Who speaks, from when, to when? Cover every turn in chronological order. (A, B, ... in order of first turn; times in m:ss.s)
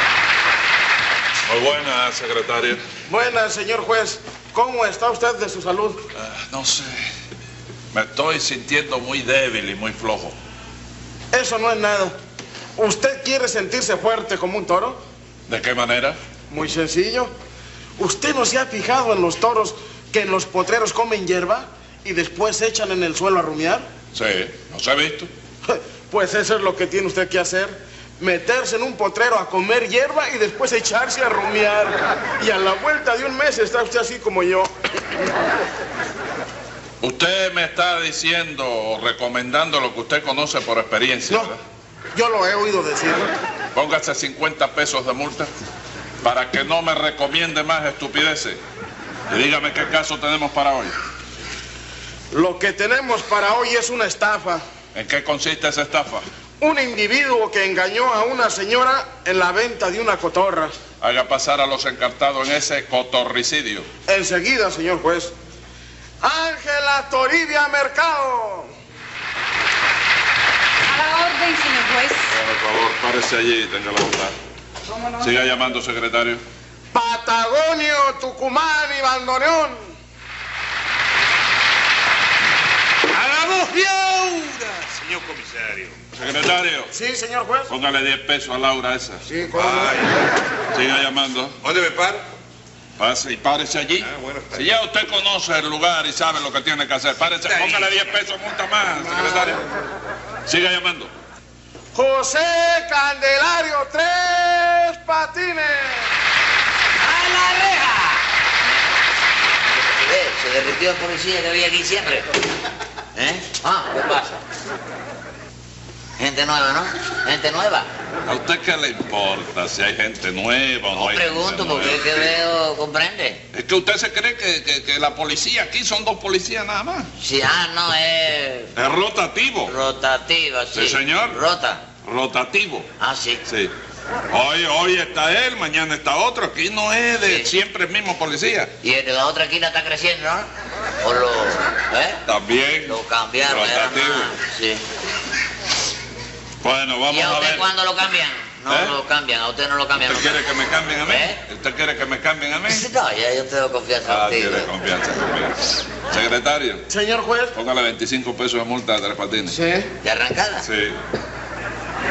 0:01.5-0:02.8 A
0:03.1-0:06.0 B
0:06.1-0:07.1 A
0:07.9-0:10.3 A
0:11.3-0:12.1 B
0:12.8-0:15.0 B
0:15.5-0:16.2 A
0:16.5-0:17.3 B
0:18.0-0:23.9 B
0:24.1-0:25.3 A
0:25.6-0:34.7 B
0:37.0-0:41.6 A
0:42.1-0:43.3 B
0:43.7-0:45.5 A
0:46.2-0:48.6 A
0:49.3-0:51.0 A
0:52.3-0:54.6 B
0:54.9-0:56.2 A
0:56.6-1:00.7 B
1:01.0-1:03.9 A
1:04.1-1:05.3 B
1:06.2-1:08.7 B
1:10.8-1:12.3 C
1:12.3-1:14.3 A
1:14.8-1:15.5 C
1:15.2-1:16.4 A
1:16.9-1:19.9 B
1:23.1-1:26.0 D
1:26.2-1:26.9 A
1:26.9-1:27.7 B
1:27.7-1:29.2 A
1:29.3-1:29.9 B
1:29.6-1:30.2 D
1:30.7-1:31.6 A
1:31.6-1:32.2 D
1:33.0-1:39.6 A
1:34.0-1:34.7 D
1:37.4-1:37.9 D
1:39.3-1:39.6 B
1:40.4-1:41.1 A
1:41.9-1:46.1 B
1:47.0-1:48.2 E
1:50.0-1:52.3 E
1:53.1-1:54.4 E
1:56.2-1:57.9 E
1:58.2-2:02.3 A
2:00.9-2:03.4 E
2:03.5-2:07.1 A
2:07.2-2:08.7 E
2:08.8-2:09.7 A
2:09.6-2:11.8 E
2:10.7-2:11.4 A
2:12.0-2:12.9 A
2:13.0-2:13.4 E
2:13.4-2:13.7 A
2:14.3-2:18.7 A
2:17.2-2:17.5 E
2:18.8-2:20.5 E
2:21.0-2:22.2 E
2:22.2-2:24.3 A
2:22.8-2:24.8 E
2:26.6-2:27.7 A
2:27.1-2:30.4 E
2:28.7-2:29.0 A
2:30.0-2:32.9 A
2:31.0-2:31.4 E
2:32.7-2:34.7 E
2:34.0-2:36.8 A
2:36.9-2:37.5 B
2:37.5-2:39.6 A
2:39.5-2:39.9 B
2:40.0-2:40.7 E
2:40.6-2:41.0 A